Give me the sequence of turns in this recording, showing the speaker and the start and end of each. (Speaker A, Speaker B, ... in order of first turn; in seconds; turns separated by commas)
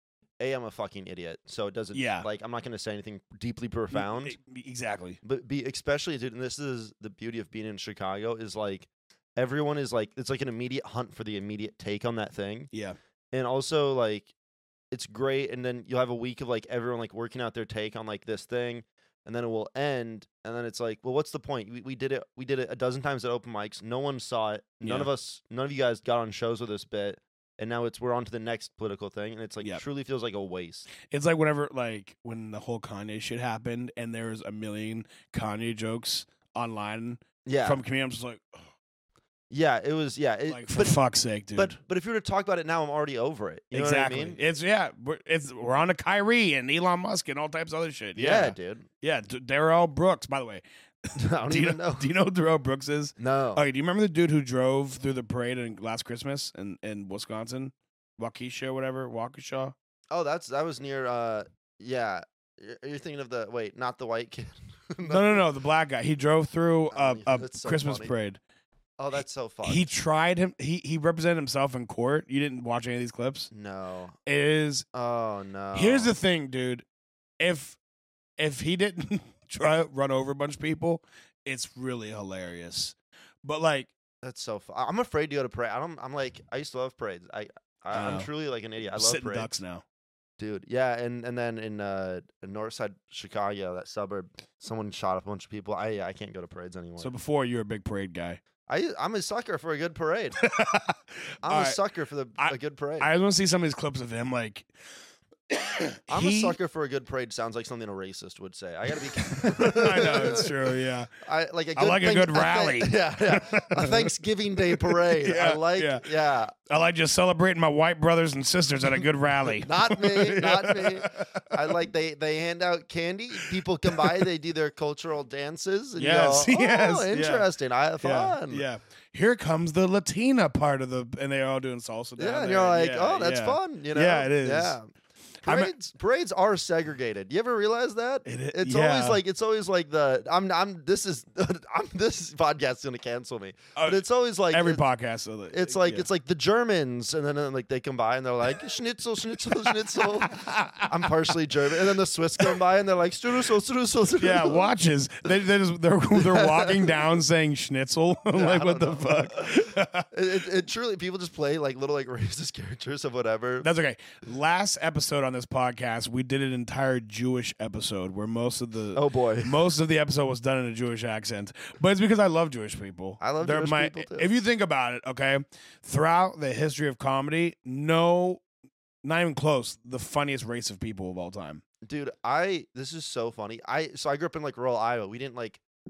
Speaker A: 0.4-4.4, Speaker B: 1.9-2.3, Speaker B: 3.9-5.2, Speaker A: 5.2-12.7, Speaker B: 12.7-13.0, Speaker A: 13.3-14.3, Speaker A: 14.9-30.9, Speaker B: 24.8-25.1, Speaker B: 31.0-38.7, Speaker A: 37.5-37.8, Speaker A: 39.5-41.0, Speaker B: 40.5-41.8, Speaker A: 41.5-44.4, Speaker B: 43.7-59.8, Speaker A: 48.2-48.9, Speaker A: 51.2-52.1, Speaker A: 53.2-53.6, Speaker A: 60.1-65.4, Speaker B: 65.0-68.4, Speaker A: 66.9-68.1, Speaker A: 69.0-69.9, Speaker B: 69.6-73.5, Speaker A: 73.5-74.2, Speaker B: 74.3-74.9, Speaker A: 74.9-76.2, Speaker B: 75.7-76.8, Speaker B: 77.4-77.8, Speaker B: 78.4-83.9, Speaker A: 84.2-89.5, Speaker B: 87.9-88.3, Speaker B: 88.9-89.8, Speaker A: 90.4-97.1, Speaker B: 97.0-98.4, Speaker A: 98.7-100.4, Speaker B: 100.4-101.8, Speaker A: 101.4-103.1, Speaker B: 102.4-104.7, Speaker B: 105.5-106.6, Speaker A: 106.1-110.5, Speaker B: 109.4-111.1, Speaker A: 111.2-116.5, Speaker B: 111.8-114.1, Speaker B: 114.7-116.1, Speaker B: 116.7-121.7, Speaker A: 119.6-128.7, Speaker B: 123.9-124.2, Speaker B: 126.0-127.5, Speaker B: 128.0-134.8, Speaker A: 132.2-134.9, Speaker A: 135.4-144.8, Speaker B: 135.4-135.7, Speaker B: 138.2-139.2, Speaker B: 143.8-146.1, Speaker A: 145.5-154.7, Speaker B: 149.9-151.2, Speaker B: 154.2-160.1, Speaker A: 156.1-157.1, Speaker A: 158.3-163.7, Speaker B: 163.6-178.4, Speaker A: 168.9-169.6, Speaker A: 173.2-174.3, Speaker B: 179.0-181.6, Speaker A: 181.8-185.6